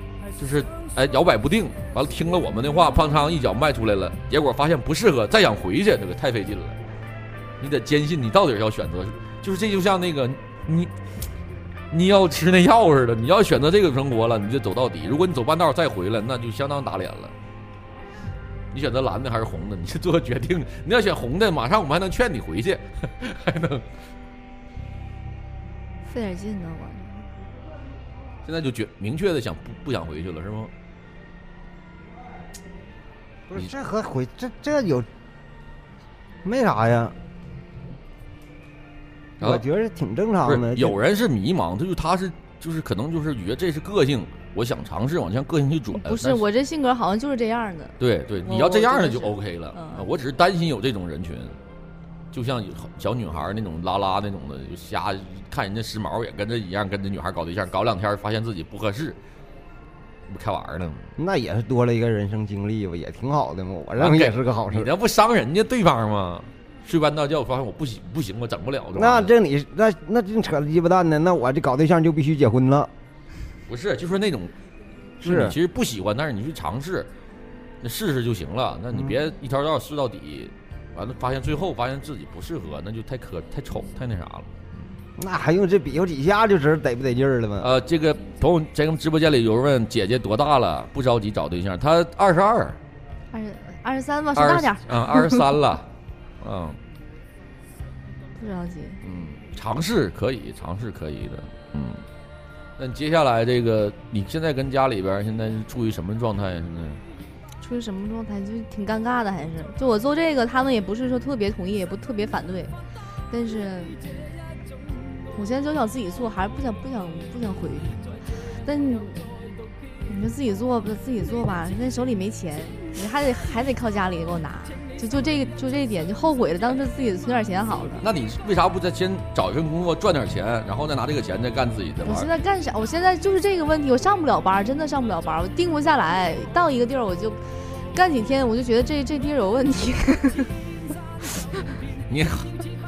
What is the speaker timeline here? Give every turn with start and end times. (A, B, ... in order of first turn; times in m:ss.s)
0:00.4-0:06.8 A
0:07.6-0:10.9 A
0:11.9-0:17.3 A
0:18.7-0:23.9 A
0:26.1-0:27.3 B
0:28.4-0:30.7 A
0:33.5-0:35.1 C
0:36.4-0:37.2 C
0:39.4-0:41.0 C
0:40.4-0:46.4 A
0:46.0-0:50.0 B
0:48.0-0:51.6 A
0:52.3-0:59.2 A
1:00.3-1:01.1 A
1:01.2-1:04.9 C
1:04.0-1:09.3 A
1:08.9-1:12.9 C
1:13.7-1:14.5 A
1:15.2-1:17.1 A
1:15.2-1:15.6 C
1:17.8-1:24.5 A
1:25.2-1:27.7 C
1:27.6-1:32.8 A
1:33.3-1:35.4 B
1:34.4-1:35.9 A
1:36.4-1:36.8 A
1:38.4-1:39.0 B
1:39.0-1:42.0 A
1:42.8-1:47.0 A
1:47.6-1:52.7 B
1:53.3-1:54.0 B
1:55.3-1:59.3 B
2:00.1-2:08.1 B
2:08.0-2:12.3 A
2:12.0-2:20.6 B
2:22.1-2:22.6 A